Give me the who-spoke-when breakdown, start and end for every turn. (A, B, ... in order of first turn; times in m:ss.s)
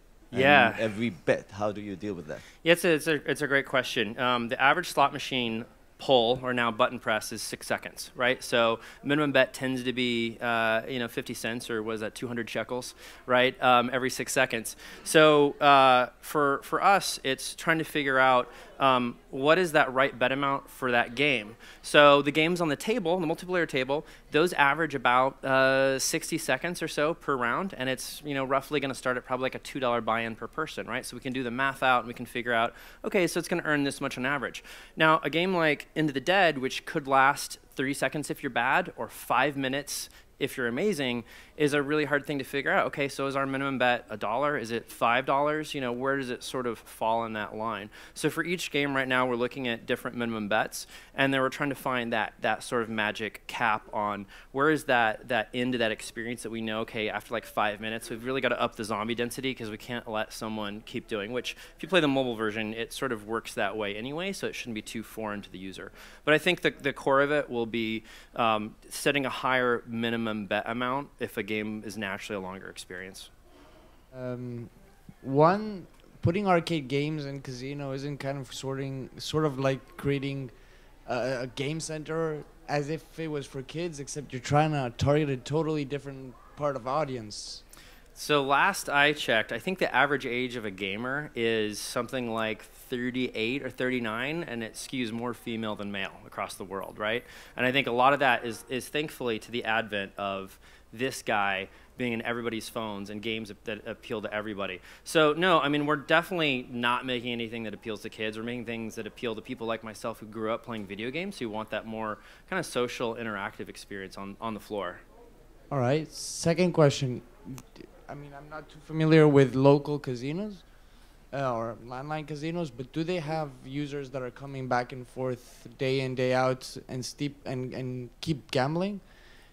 0:00.3-0:00.9 A
0:00.3-0:02.4 B
0:02.6-1:13.3 A
1:14.1-1:20.5 C
1:21.0-1:27.6 C
1:28.2-1:55.0 A
1:55.7-2:00.7 C
2:01.3-2:09.1 C